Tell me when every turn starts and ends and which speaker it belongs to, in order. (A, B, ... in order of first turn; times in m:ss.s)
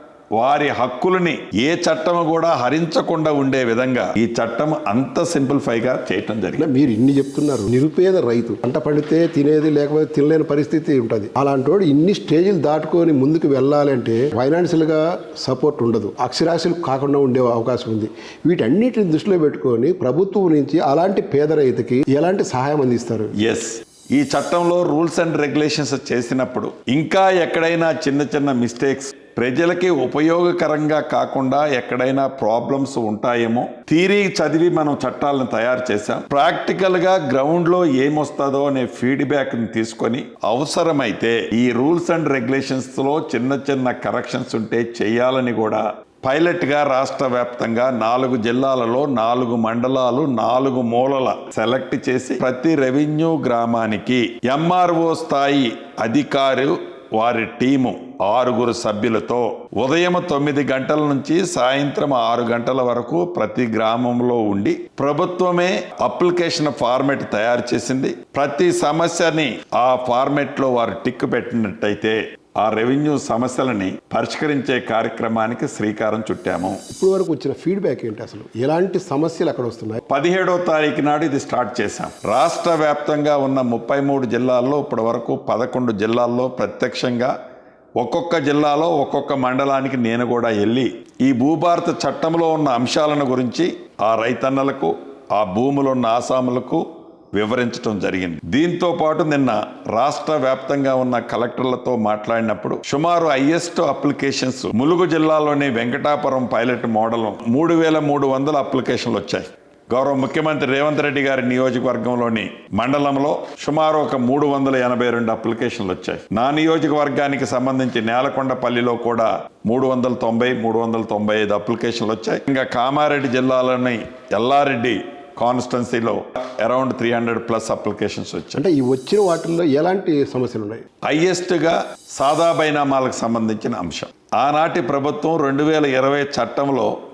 0:00.4-0:06.7 A
0:06.6-0:23.4 B
0:23.4-1:16.8 A
1:16.9-1:20.0 B
1:20.1-1:27.3 A
1:28.0-2:08.6 A
2:08.6-2:10.8 B
2:11.0-2:17.0 A